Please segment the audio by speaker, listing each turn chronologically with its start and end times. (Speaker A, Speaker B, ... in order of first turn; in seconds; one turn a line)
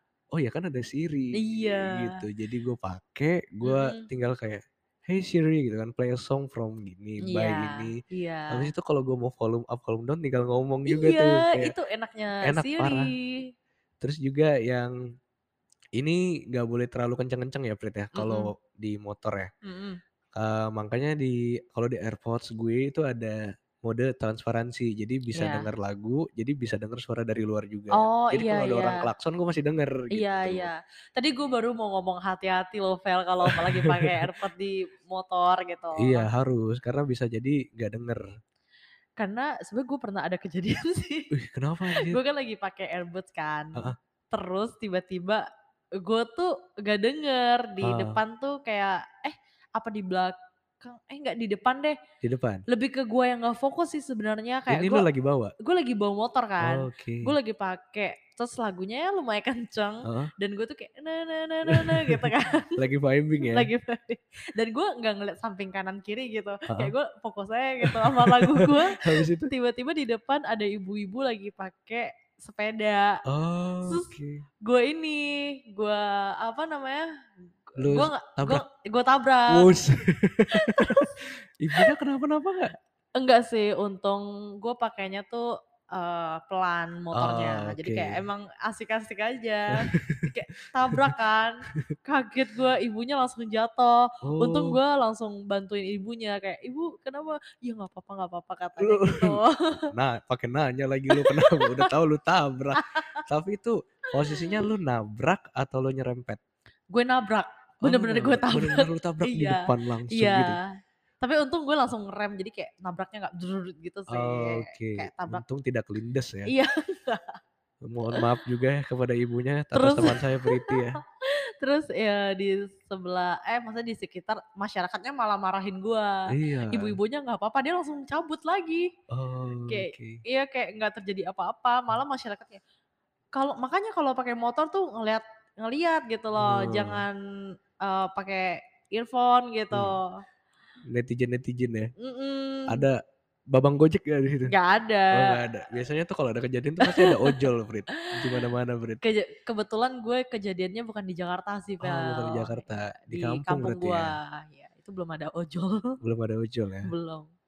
Speaker A: 0.3-11.7
Speaker B: 1.3-2.2
Speaker B: 3.6-4.1
Speaker B: 7.2-8.7
Speaker B: 10.9-13.4
Speaker A: 12.4-13.1
Speaker A: 14.0-14.9
Speaker A: 16.0-19.5
Speaker B: 18.1-18.5
Speaker B: 19.6-20.0
Speaker A: 20.4-30.7
Speaker B: 25.3-25.7
Speaker B: 27.9-29.1
Speaker B: 30.1-36.3
Speaker A: 33.5-34.3
Speaker A: 36.0-38.2
Speaker B: 39.2-41.3
Speaker A: 41.3-42.2
Speaker B: 41.9-45.5
Speaker B: 46.0-52.0
Speaker A: 47.8-48.2
Speaker A: 52.2-52.6
Speaker B: 52.7-55.1
Speaker A: 54.7-55.5
Speaker B: 55.6-62.7
Speaker A: 56.6-57.3
Speaker A: 60.0-60.3
Speaker A: 61.7-63.7
Speaker B: 63.4-73.2
Speaker A: 67.8-69.5
Speaker A: 73.2-74.4
Speaker B: 73.8-74.1
Speaker B: 74.6-77.1
Speaker B: 77.7-79.7
Speaker A: 77.8-78.6
Speaker A: 79.5-82.7
Speaker B: 80.5-81.1
Speaker B: 83.2-99.9
Speaker A: 87.1-88.2
Speaker A: 89.8-90.3
Speaker A: 90.9-91.1
Speaker A: 94.2-94.8
Speaker A: 98.8-106.4
Speaker B: 101.1-101.9
Speaker B: 102.8-103.2
Speaker B: 104.2-104.7
Speaker B: 106.9-110.7
Speaker A: 107.8-110.6
Speaker B: 111.2-115.4
Speaker A: 114.1-116.5
Speaker B: 116.5-117.4
Speaker A: 117.8-121.0
Speaker B: 118.0-118.4
Speaker B: 119.7-128.9
Speaker A: 126.3-127.0
Speaker A: 129.1-130.2
Speaker B: 129.7-132.6
Speaker B: 133.3-137.2
Speaker A: 136.4-137.1
Speaker B: 137.8-140.2
Speaker A: 139.7-140.0
Speaker A: 140.8-141.9
Speaker B: 142.0-142.9
Speaker A: 142.7-143.0
Speaker A: 143.5-144.5
Speaker B: 144.5-145.4
Speaker A: 145.1-149.0
Speaker B: 146.8-148.5
Speaker B: 149.0-156.0
Speaker A: 151.8-154.2
Speaker A: 156.0-156.9
Speaker B: 156.8-157.3